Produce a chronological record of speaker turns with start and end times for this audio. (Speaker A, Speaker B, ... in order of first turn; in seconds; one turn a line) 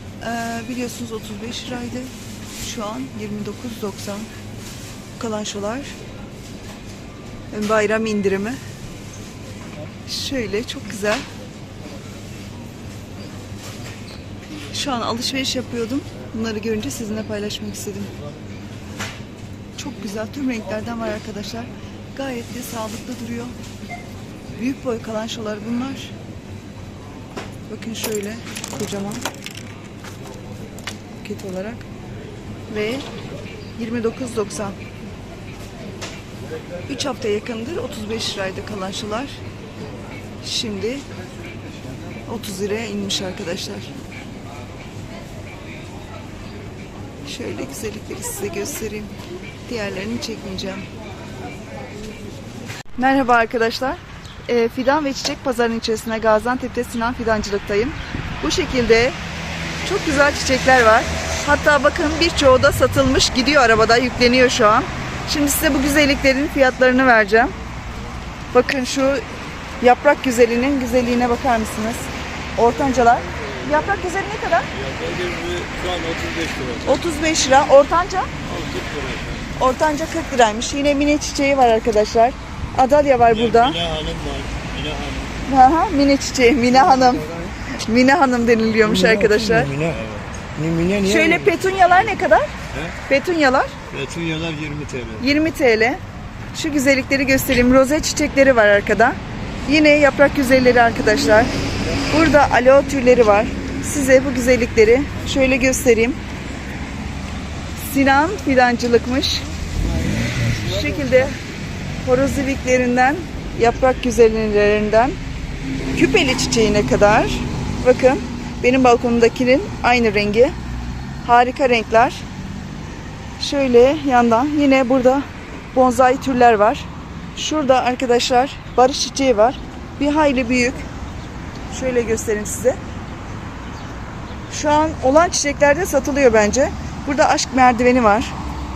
Speaker A: 0.2-4.3
Speaker A: 5.2-5.9
Speaker A: 7.5-8.6
Speaker A: 10.1-11.2
Speaker A: 14.7-18.1
Speaker A: 19.8-23.6
Speaker A: 24.6-26.1
Speaker A: 27.7-29.2
Speaker A: 31.2-31.9
Speaker A: 32.7-33.0
Speaker A: 33.8-34.8
Speaker A: 36.9-39.4
Speaker A: 40.4-41.0
Speaker A: 42.3-43.9
Speaker A: 47.2-49.1
Speaker A: 49.7-50.9
Speaker A: 53.0-59.2
Speaker A: 59.8-67.5
Speaker A: 68.5-69.2
Speaker A: 69.8-74.7
Speaker B: 72.9-74.0
Speaker B: 74.7-77.0
Speaker A: 76.8-78.3
Speaker B: 78.4-79.5
Speaker A: 79.6-83.8
Speaker B: 83.3-85.4
Speaker A: 85.5-89.8
Speaker C: 87.0-87.5
Speaker C: 88.8-90.0
Speaker B: 89.9-90.2
Speaker C: 90.5-91.5
Speaker A: 91.0-92.5
Speaker B: 92.7-93.0
Speaker A: 93.1-93.8
Speaker B: 93.9-95.2
Speaker A: 95.2-96.0
Speaker A: 96.5-101.5
Speaker A: 102.1-106.2
Speaker A: 107.8-109.5
Speaker A: 110.5-111.4
Speaker A: 112.0-115.2
Speaker A: 115.9-120.5
Speaker A: 121.2-122.2
Speaker A: 123.4-130.9
Speaker A: 131.7-132.8
Speaker A: 134.5-138.3